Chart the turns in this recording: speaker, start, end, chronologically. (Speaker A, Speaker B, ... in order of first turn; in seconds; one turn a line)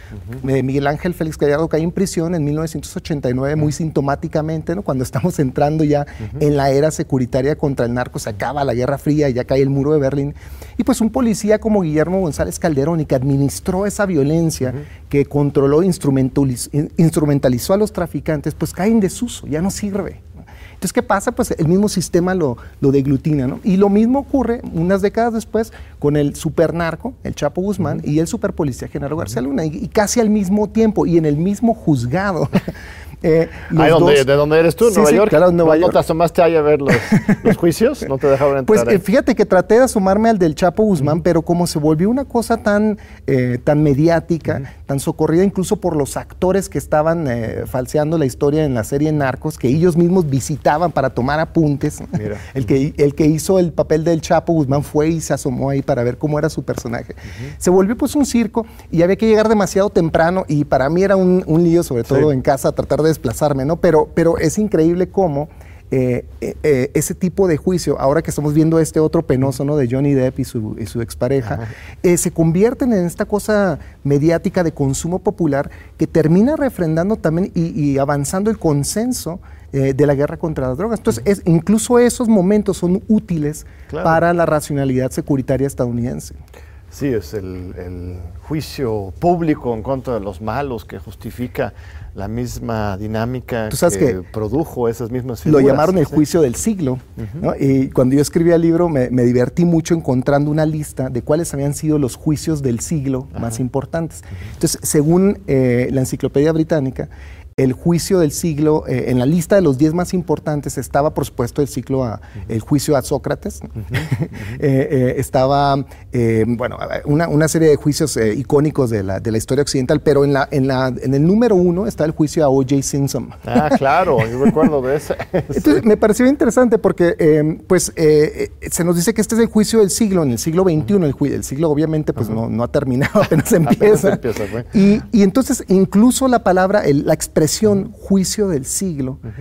Speaker A: 0.4-32.7
Speaker A: 33.2-34.2
Speaker B: 33.7-39.0
Speaker A: 34.8-36.0
Speaker A: 36.9-37.5
Speaker A: 38.6-86.4
Speaker B: 52.1-52.6
Speaker B: 83.9-84.2
Speaker B: 86.9-96.2
Speaker A: 93.7-94.2
Speaker A: 95.4-123.8
Speaker B: 97.2-97.5
Speaker B: 123.5-125.8
Speaker A: 125.5-139.2
Speaker B: 133.6-134.7